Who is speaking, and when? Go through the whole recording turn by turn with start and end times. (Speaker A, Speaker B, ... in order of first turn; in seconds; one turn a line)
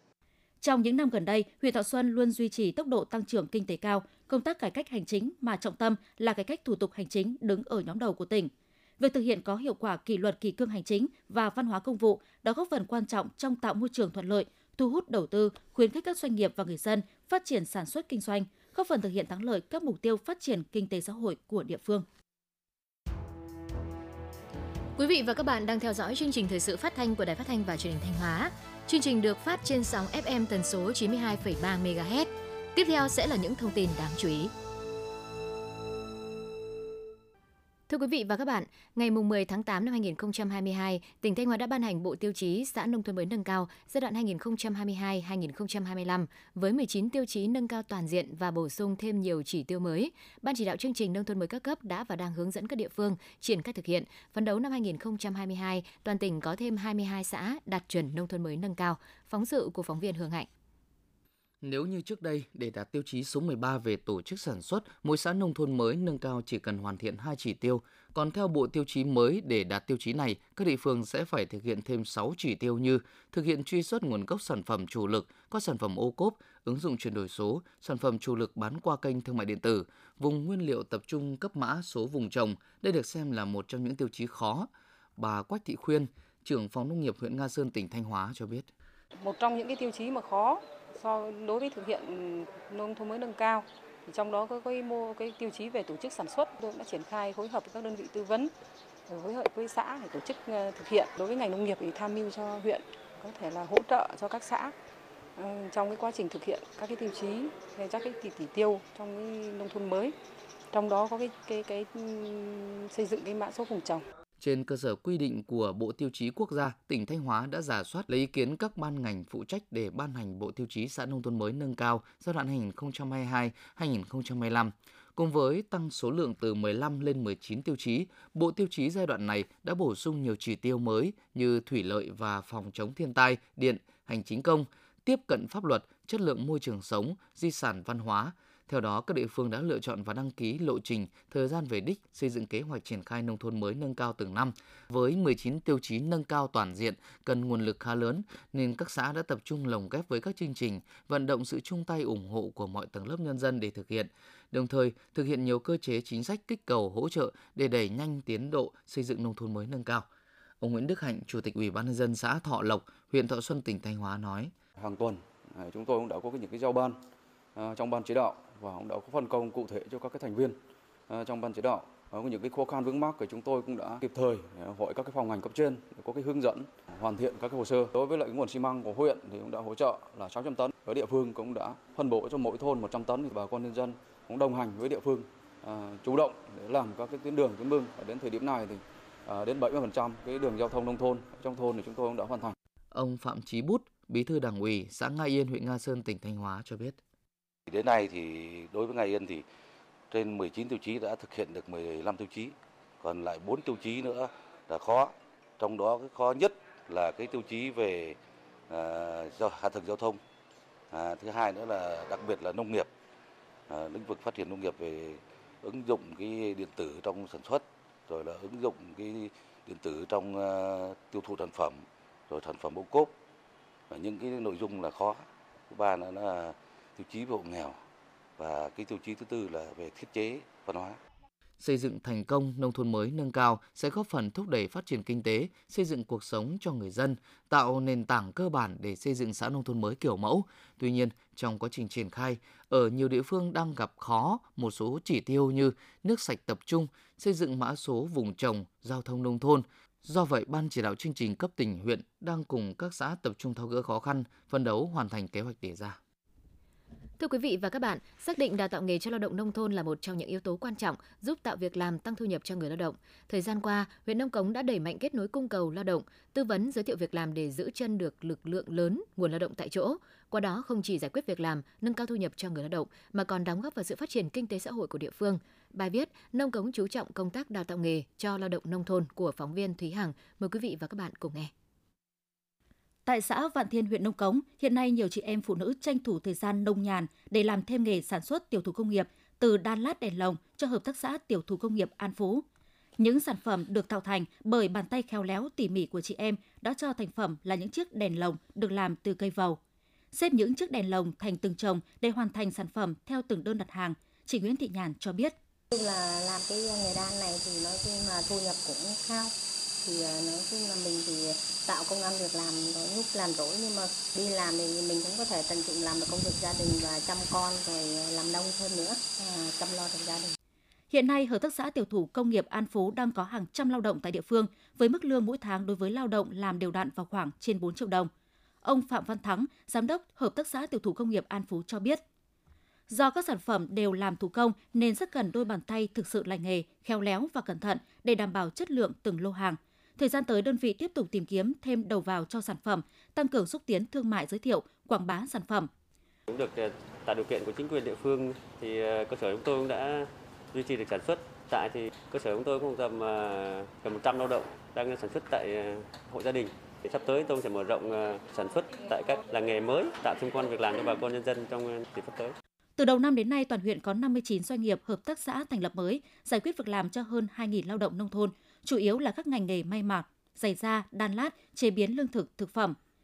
Speaker A: 0.6-22.1
Speaker B: 25.0-34.5
Speaker B: 37.9-60.5
Speaker C: 61.6-88.7
Speaker D: 89.2-98.5
Speaker D: 99.1-104.8
Speaker D: 105.4-110.2
Speaker D: 110.7-114.0
Speaker C: 114.4-160.1
Speaker C: 160.6-164.5
Speaker E: 164.8-167.0
Speaker E: 167.6-192.6
Speaker C: 192.9-197.0
Speaker F: 197.7-199.4
Speaker F: 200.1-208.2
Speaker F: 208.7-210.2
Speaker F: 210.9-212.9
Speaker F: 213.7-223.2
Speaker F: 223.9-227.8
Speaker F: 228.4-231.0
Speaker C: 231.6-256.0
Speaker B: 257.2-281.5
Speaker A: 283.1-292.4
Speaker A: 293.0-299.6
Speaker A: 300.1-305.3
Speaker G: 305.7-320.4
Speaker A: 320.9-328.1
Speaker A: 328.6-332.0
Speaker A: 332.9-345.7
Speaker H: 346.3-362.4
Speaker A: 362.8-372.8